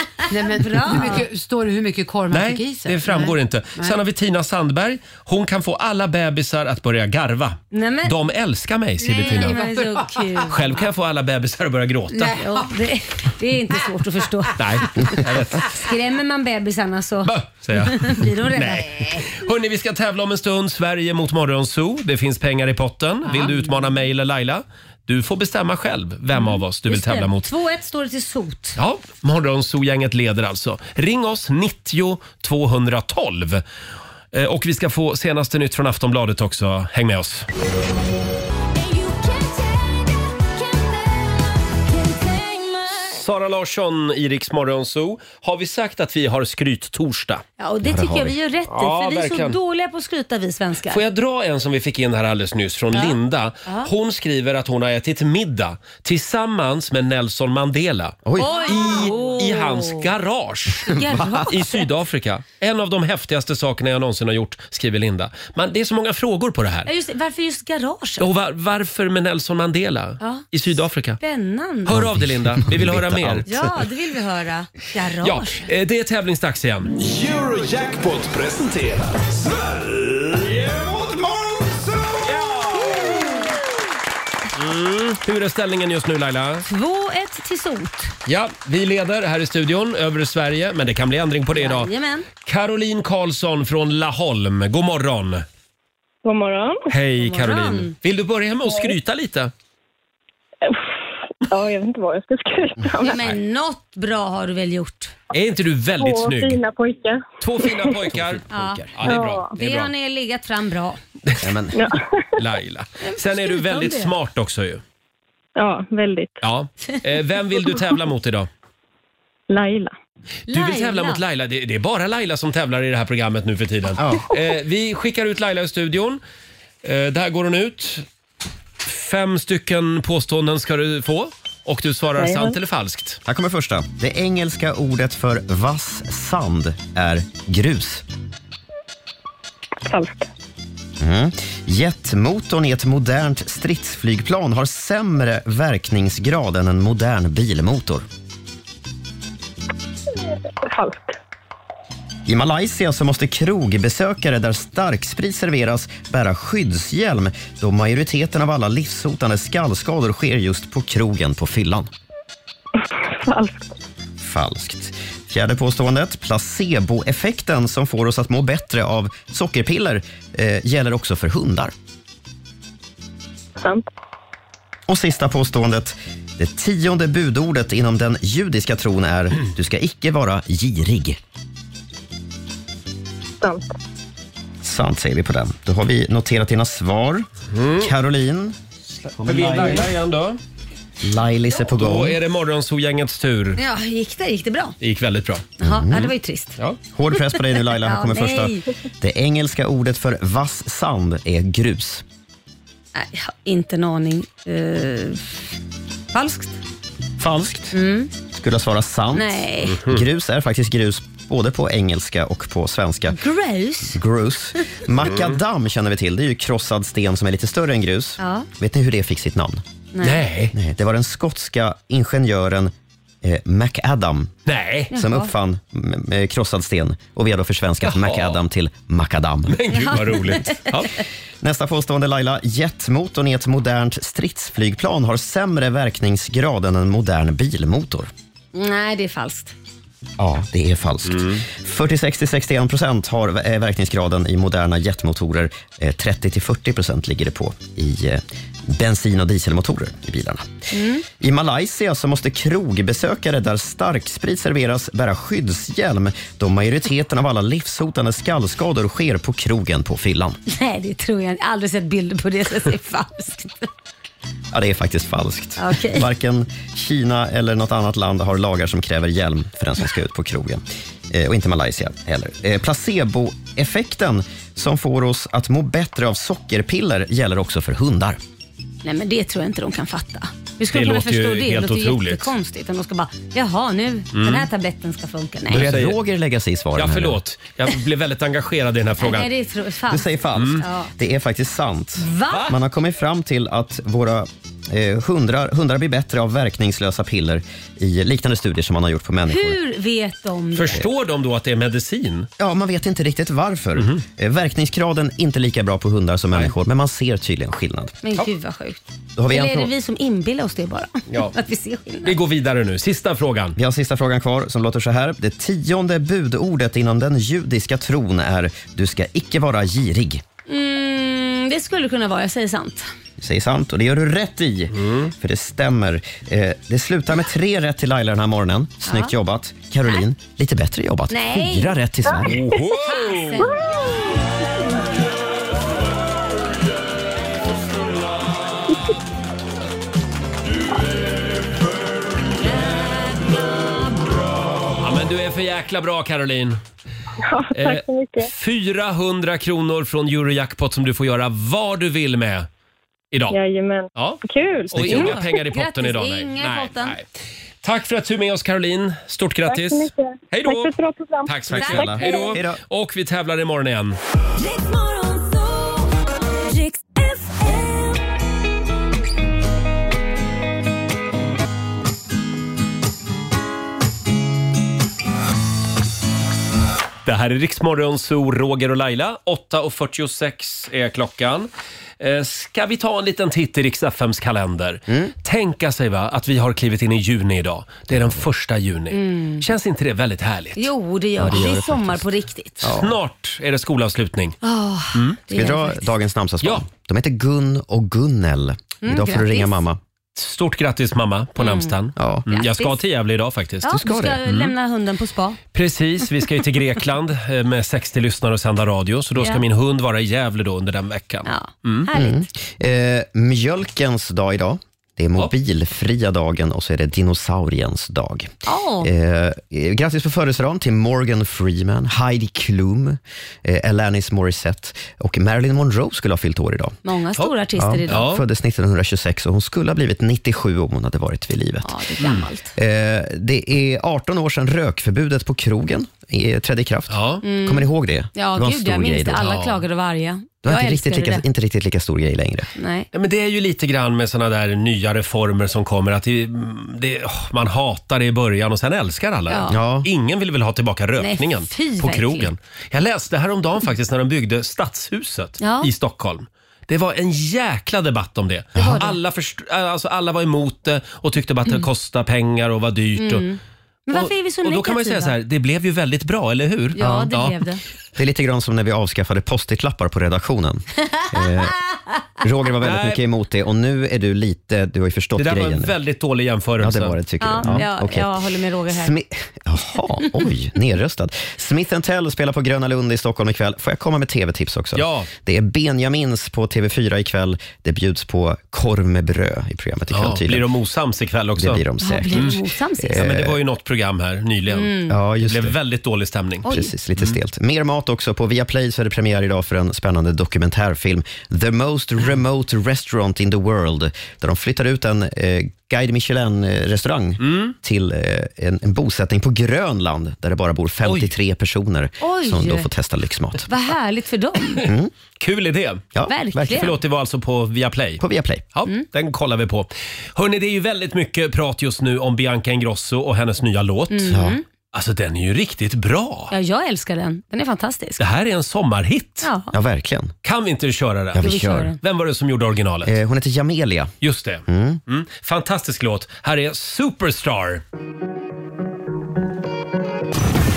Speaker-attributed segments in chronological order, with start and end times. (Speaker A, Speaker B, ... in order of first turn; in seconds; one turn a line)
Speaker A: 0.3-4.0
Speaker B: 0.6-1.2
Speaker C: 2.3-9.6
Speaker B: 7.7-8.1
Speaker A: 9.0-10.8
Speaker B: 9.1-10.6
Speaker C: 10.5-12.4
Speaker A: 12.1-12.8
Speaker B: 12.4-18.9
Speaker C: 14.6-15.8
Speaker C: 17.2-27.5
Speaker A: 19.0-19.2
Speaker B: 26.4-28.8
Speaker C: 28.8-33.6
Speaker C: 34.3-37.5
Speaker D: 38.8-43.1
Speaker C: 42.9-47.4
Speaker B: 47.6-51.0
Speaker E: 47.8-48.3
Speaker C: 48.7-49.6
Speaker C: 50.9-61.0
Speaker B: 52.9-53.9
Speaker E: 58.2-58.5
Speaker B: 58.4-60.0
Speaker B: 60.9-61.8
Speaker E: 61.1-61.4
Speaker C: 61.5-66.9
Speaker B: 66.9-68.3
Speaker C: 68.2-71.2
Speaker B: 70.2-70.5
Speaker B: 71.2-72.0
Speaker C: 71.9-73.5
Speaker E: 71.9-73.5
Speaker B: 73.5-75.7
Speaker C: 75.2-76.9
Speaker F: 77.0-82.8
Speaker B: 82.9-83.3
Speaker C: 84.5-86.7
Speaker B: 86.7-88.1
Speaker C: 88.3-91.9
Speaker B: 91.5-92.3
Speaker C: 92.5-95.5
Speaker G: 96.2-96.8
Speaker C: 96.9-99.5
Speaker B: 97.2-98.0
Speaker G: 101.5-103.2
Speaker B: 103.0-105.1
Speaker C: 105.3-106.6
Speaker G: 106.0-107.9
Speaker C: 107.4-109.9
Speaker E: 108.1-109.0
Speaker B: 108.5-111.0
Speaker G: 109.1-109.5
Speaker E: 111.4-111.8
Speaker C: 112.4-114.8
Speaker B: 113.0-114.1
Speaker G: 115.6-116.3
Speaker C: 116.4-118.5
Speaker G: 117.6-118.0
Speaker G: 119.5-119.9
Speaker B: 120.5-121.2
Speaker C: 120.5-126.2
Speaker E: 124.0-124.2
Speaker C: 126.8-128.1
Speaker C: 128.8-133.2
Speaker G: 132.2-132.5
Speaker E: 133.3-138.1
Speaker G: 139.9-140.2
Speaker E: 141.0-148.1
Speaker G: 150.6-151.2
Speaker E: 152.3-161.9
Speaker G: 163.2-163.7
Speaker E: 164.2-171.7
Speaker E: 174.9-181.2
Speaker E: 184.6-188.6
Speaker C: 187.5-187.9
Speaker E: 189.1-189.9
Speaker C: 189.2-190.4
Speaker E: 191.0-192.2
Speaker C: 191.7-193.6
Speaker B: 193.6-194.8
Speaker C: 194.8-195.5
Speaker B: 195.6-196.6
Speaker E: 195.6-196.1
Speaker E: 196.9-202.0
Speaker B: 197.1-198.7
Speaker B: 202.9-205.5
Speaker B: 206.1-206.6
Speaker E: 207.2-207.8
Speaker B: 207.7-208.1
Speaker E: 208.3-213.2
Speaker B: 209.2-209.8
Speaker B: 213.1-214.0
Speaker E: 213.8-219.6
Speaker C: 215.0-215.3
Speaker B: 218.2-218.5
Speaker B: 219.9-220.2
Speaker C: 220.0-220.5
Speaker E: 220.5-224.3
Speaker C: 224.5-224.9
Speaker B: 224.9-225.3
Speaker E: 224.9-229.6
Speaker C: 227.8-228.4
Speaker C: 229.5-231.0
Speaker B: 229.7-230.6
Speaker E: 231.4-238.1
Speaker B: 238.5-239.5
Speaker E: 240.2-250.5
Speaker C: 241.1-241.4
Speaker B: 250.7-251.0
Speaker E: 251.1-260.4
Speaker B: 260.5-263.7
Speaker E: 264.5-278.2
Speaker B: 265.6-266.1
Speaker B: 278.8-285.7
Speaker C: 280.7-282.3
Speaker C: 284.1-284.5
Speaker E: 285.5-287.2
Speaker C: 285.5-286.0
Speaker C: 286.8-289.3
Speaker B: 289.0-290.9
Speaker E: 289.9-299.6
Speaker C: 290.4-290.6
Speaker B: 292.0-292.5
Speaker C: 292.3-292.6
Speaker B: 299.3-300.8
Speaker C: 300.6-302.3
Speaker E: 302.4-308.0
Speaker C: 303.8-304.0
Speaker B: 308.0-312.1
Speaker E: 309.2-309.7
Speaker C: 311.1-311.4
Speaker C: 312.0-313.6
Speaker E: 313.6-320.2
Speaker B: 320.5-322.9
Speaker E: 323.2-332.6
Speaker C: 324.7-325.1
Speaker B: 328.9-329.1
Speaker B: 331.1-331.7
Speaker C: 332.2-333.6
Speaker B: 332.7-333.6
Speaker B: 342.5-343.7
Speaker C: 344.8-346.6
Speaker G: 347.3-348.3
Speaker C: 347.5-352.5
Speaker G: 353.3-355.3
Speaker C: 353.9-354.2
Speaker C: 354.7-357.0
Speaker B: 354.8-357.0
Speaker C: 357.6-360.7
Speaker G: 359.4-362.4
Speaker C: 361.2-364.0
Speaker E: 361.5-362.6
Speaker B: 361.6-362.3
Speaker D: 364.4-368.0
Speaker C: 377.1-390.7
Speaker E: 384.9-385.1
Speaker E: 387.9-388.2
Speaker B: 388.9-389.5
Speaker B: 390.6-392.7
Speaker E: 391.2-392.1
Speaker E: 392.6-393.0
Speaker C: 392.6-394.4
Speaker B: 394.4-395.9
Speaker C: 394.9-395.2
Speaker E: 395.3-399.8
Speaker B: 398.8-399.6
Speaker C: 400.2-404.5
Speaker B: 401.4-401.8
Speaker E: 402.0-402.3
Speaker B: 402.3-402.8
Speaker B: 403.6-405.4
Speaker E: 403.7-404.2
Speaker C: 405.5-411.9
Speaker B: 409.2-409.4
Speaker B: 411.3-412.3
Speaker E: 411.9-418.3
Speaker B: 418.5-418.9
Speaker E: 418.8-426.8
Speaker B: 426.9-428.1
Speaker E: 427.6-431.8
Speaker C: 427.9-428.2
Speaker B: 431.6-432.5
Speaker E: 432.6-439.3
Speaker C: 436.9-437.2
Speaker B: 437.2-441.2
Speaker C: 439.2-439.6
Speaker E: 440.4-442.5
Speaker B: 442.6-442.9
Speaker C: 442.9-463.2
Speaker B: 449.3-449.6
Speaker E: 449.5-449.9
Speaker B: 451.0-452.3
Speaker B: 455.4-455.7
Speaker B: 458.6-458.9
Speaker E: 458.6-458.9
Speaker B: 463.0-465.1
Speaker C: 463.9-467.4
Speaker B: 466.8-467.6
Speaker E: 466.8-467.1
Speaker E: 468.0-471.5
Speaker B: 471.0-471.8
Speaker E: 472.2-475.7
Speaker C: 472.6-473.0
Speaker C: 475.2-477.6
Speaker E: 476.6-478.1
Speaker B: 477.2-478.9
Speaker E: 478.7-490.5
Speaker C: 484.8-485.1
Speaker C: 489.9-492.4
Speaker E: 491.4-493.4
Speaker B: 491.8-493.0
Speaker C: 493.0-496.5
Speaker B: 494.5-495.0
Speaker E: 494.9-495.6
Speaker E: 496.4-513.5
Speaker C: 507.2-507.5
Speaker C: 510.9-511.1
Speaker B: 512.0-512.7
Speaker B: 513.5-514.6
Speaker E: 514.6-514.9
Speaker C: 515.2-515.8
Speaker E: 515.9-516.7
Speaker B: 516.1-516.7
Speaker C: 516.5-518.0
Speaker E: 518.0-518.5
Speaker C: 518.5-524.2
Speaker B: 523.9-524.4
Speaker E: 524.1-524.4
Speaker C: 524.7-526.3
Speaker B: 526.3-528.0
Speaker C: 528.0-529.3
Speaker B: 529.2-529.5
Speaker E: 529.5-530.1
Speaker C: 530.2-532.9
Speaker E: 531.1-531.8
Speaker B: 531.2-531.8
Speaker E: 532.9-533.9
Speaker C: 534.0-537.6
Speaker E: 534.5-534.8